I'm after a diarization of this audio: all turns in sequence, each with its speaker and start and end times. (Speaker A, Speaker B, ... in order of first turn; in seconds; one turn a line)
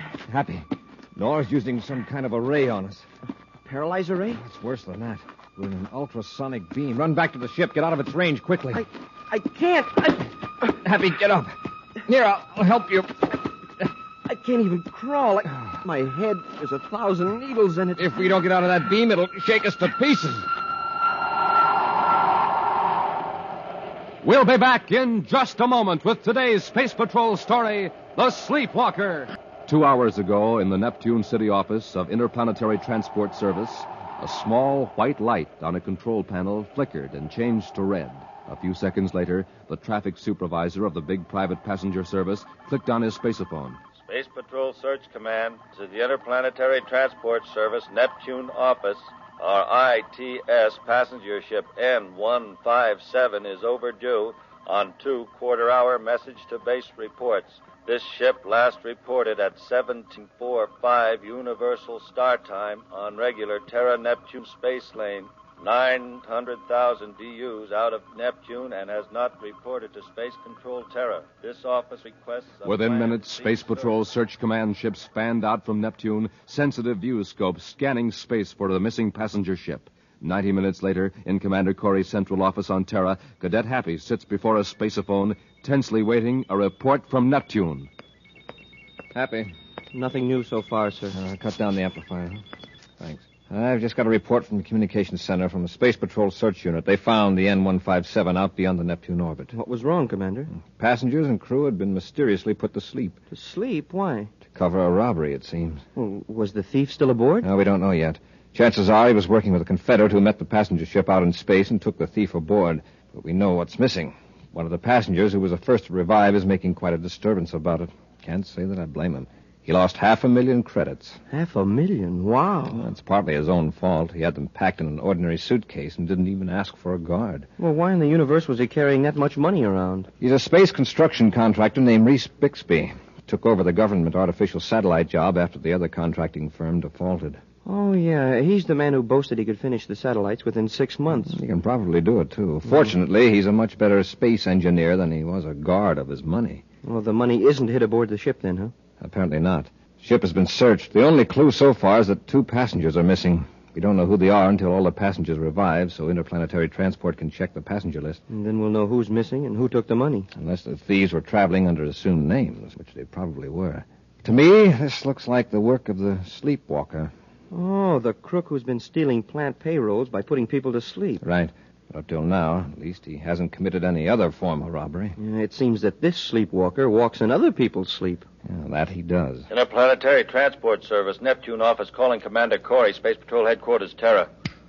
Speaker A: 0.2-0.7
Speaker A: 1.2-3.1
Speaker B: 3.6-4.4
Speaker A: 4.3-8.8
Speaker B: 8.7-10.3
Speaker A: 10.7-13.3
Speaker B: 14.3-18.1
Speaker A: 18.0-20.5
Speaker C: 24.2-43.8
Speaker D: 44.1-74.0
Speaker C: 72.6-87.9
Speaker A: 89.1-89.5
Speaker B: 89.9-91.2
Speaker A: 91.1-92.4
Speaker A: 93.0-99.5
Speaker B: 99.5-100.5
Speaker A: 100.5-103.2
Speaker B: 103.3-104.3
Speaker A: 104.5-105.8
Speaker B: 106.0-107.5
Speaker A: 107.4-121.2
Speaker B: 121.3-122.9
Speaker A: 122.7-127.5
Speaker B: 127.6-130.1
Speaker A: 130.2-137.4
Speaker B: 137.7-141.4
Speaker A: 141.1-146.6
Speaker B: 146.8-148.7
Speaker A: 149.0-158.2
Speaker B: 158.3-160.3
Speaker A: 160.4-167.1
Speaker B: 167.5-171.2
Speaker A: 171.2-175.2
Speaker B: 175.2-178.2
Speaker A: 178.5-179.5
Speaker D: 179.5-184.3